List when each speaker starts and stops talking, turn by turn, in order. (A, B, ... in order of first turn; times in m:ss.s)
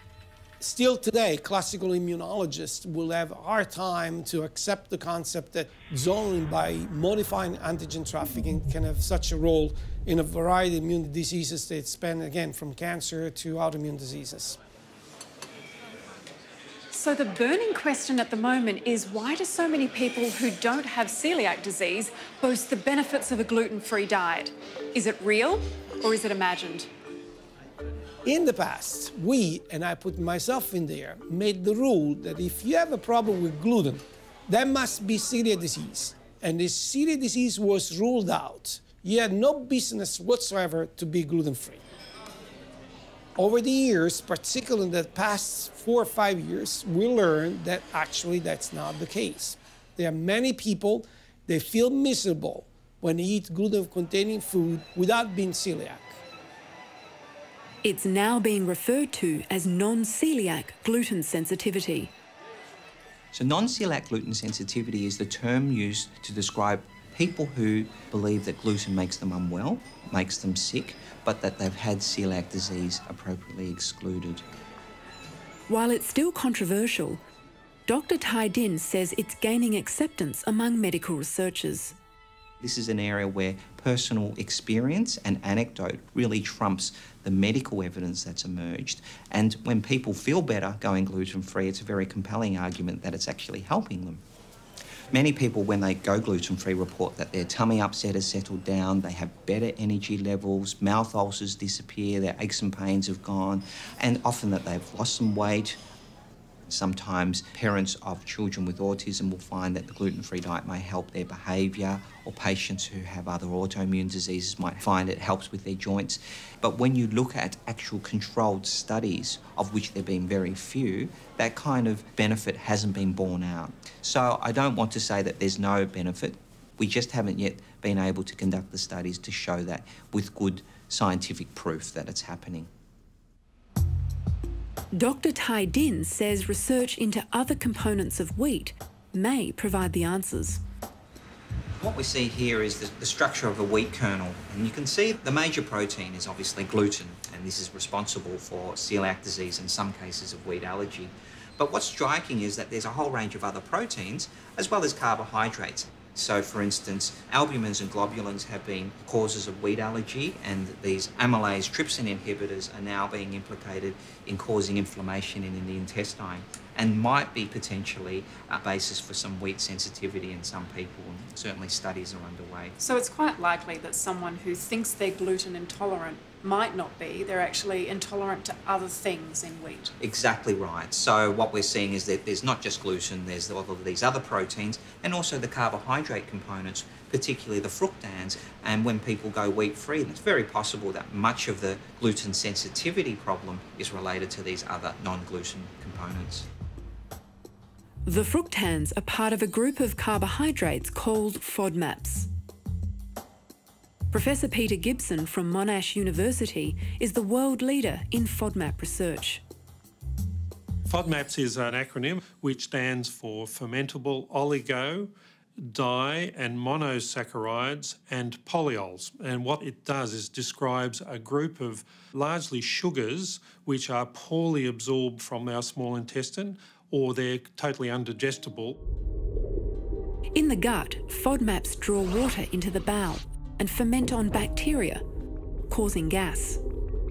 0:00.6-0:14.6 A
0:16.9-0:26.9 B
0:28.2-0:41.8 A
0:43.4-0:56.2 A
0:57.8-1:02.1 C
1:03.3-1:14.4 D
1:15.7-1:17.2 C
1:17.9-1:21.9 C
1:22.6-1:34.2 D
1:35.1-1:45.8 D
1:46.7-2:12.7 D
2:14.9-2:20.6 C
2:21.8-2:52.8 D
2:52.8-2:59.9 B
3:00.0-3:16.5 D
3:18.0-3:22.3 C
3:24.1-3:29.4 C
3:30.9-3:48.8 E
3:50.3-3:55.0 C
3:55.7-3:56.6 C